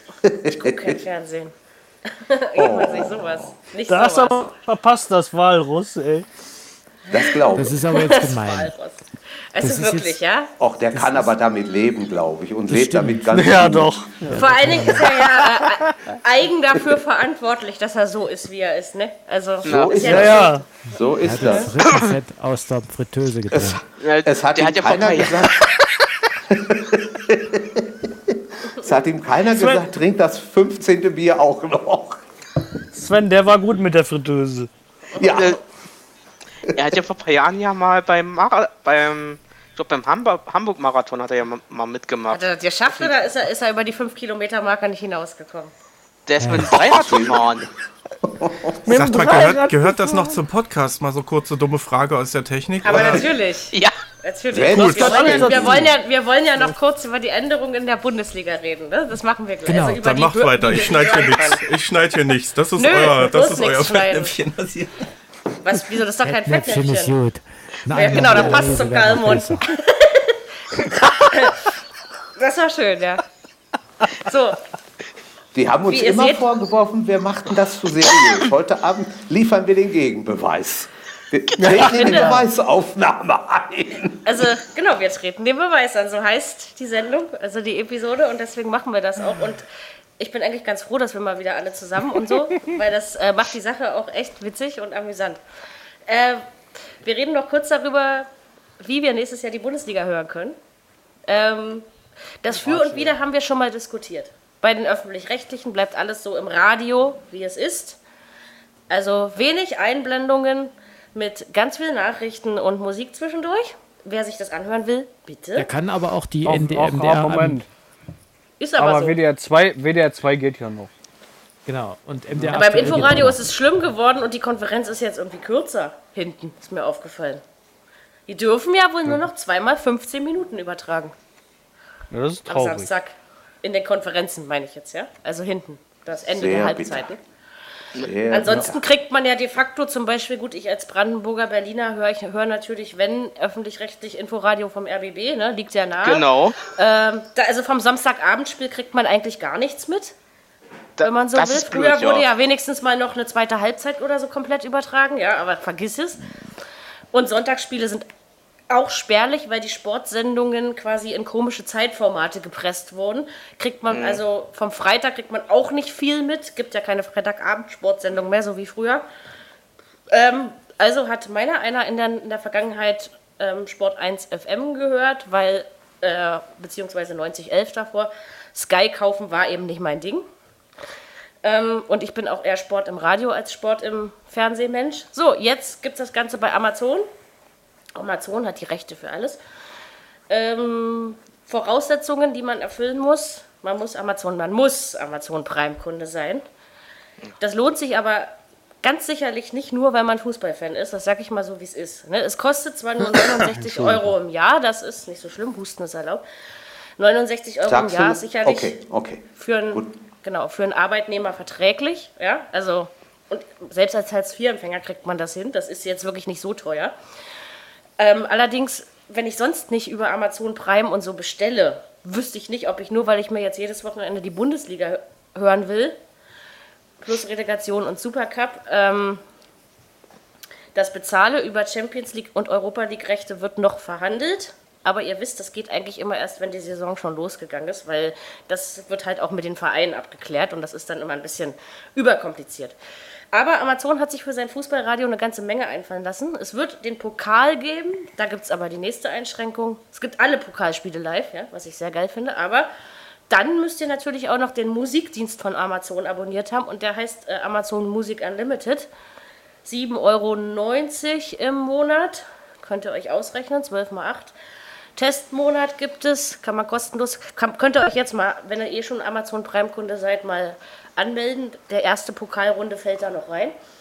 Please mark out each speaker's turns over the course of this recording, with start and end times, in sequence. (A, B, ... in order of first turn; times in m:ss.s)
0:00.2-0:01.0 A
0:00.5-0:01.5 B
0:02.1-0:04.4 B
0:02.6-0:03.5 A
0:03.9-0:06.2 C
0:07.1-0:07.8 A
0:07.1-0:10.5 B
0:07.5-0:08.7 D
0:09.6-0:10.2 D
0:10.6-0:14.2 A
0:10.9-0:11.3 D
0:12.7-0:13.4 D
0:13.3-0:14.5 C
0:14.3-0:15.1 D
0:14.3-0:20.6 B
0:19.6-0:21.8 A
0:19.6-0:19.9 E
0:20.0-0:20.6 C
0:21.2-0:23.8 D
0:23.5-0:25.7 A
0:24.0-0:25.6 E
0:26.4-0:32.2 A
0:29.5-0:29.9 C
0:32.9-0:34.7 C
0:35.2-0:35.6 A
0:35.2-0:35.6 E
0:36.7-0:43.1 E
0:42.3-0:45.7 B
0:46.3-0:47.7 E
0:46.4-0:46.8 D
0:46.7-0:47.6 A
0:48.2-0:48.9 A
0:48.8-0:50.4 C
0:48.9-0:53.3 F
0:52.8-1:01.6 B
0:54.5-0:55.9 A
0:54.8-0:55.9 C
0:54.8-0:55.4 F
0:59.6-1:00.1 D
1:00.0-1:04.9 F
1:02.7-1:04.3 B
1:05.6-1:07.1 B
1:06.2-1:09.7 D
1:07.9-1:11.7 B
1:08.0-1:08.6 A
1:12.4-1:13.2 B
1:14.1-1:14.6 B
1:15.5-1:24.4 A
1:15.9-1:16.5 B
1:21.6-1:22.4 C
1:21.7-1:22.4 B
1:24.2-1:29.6 B
1:30.2-1:35.4 B
1:36.1-1:36.4 B
1:37.0-1:38.3 B
1:38.8-1:40.6 B
1:41.3-1:41.8 B
1:42.4-1:48.0 B
1:42.6-1:43.1 D
1:48.9-1:55.7 B
1:55.6-1:57.6 D
1:56.4-1:57.6 C
1:58.6-1:59.2 B
1:58.8-2:00.9 C
2:01.6-2:03.5 D
2:02.4-2:03.2 C
2:02.5-2:07.4 B
2:08.3-2:11.1 B
2:12.1-2:12.9 C
2:12.5-2:17.2 B
2:16.3-2:17.1 A
2:18.0-2:18.8 A
2:18.3-2:30.1 B
2:26.0-2:26.6 E
2:31.0-2:32.3 E
2:31.0-2:36.2 B
2:37.1-2:38.0 B
2:38.7-2:49.0 B
2:43.9-2:44.2 E
2:50.1-3:00.2 B
3:01.4-3:07.1 B
3:07.9-3:09.4 B
3:10.3-3:16.4 B
3:17.4-3:26.2 B
3:27.0-3:28.8 B
3:27.6-3:29.9 A
3:29.4-3:36.9 B
3:38.0-3:46.0 B
3:47.0-3:49.2 B
3:50.7-4:02.8 B
4:03.3-4:12.7 B
4:13.3-4:18.9 B
4:19.6-4:24.3 B
4:25.0-4:33.6 B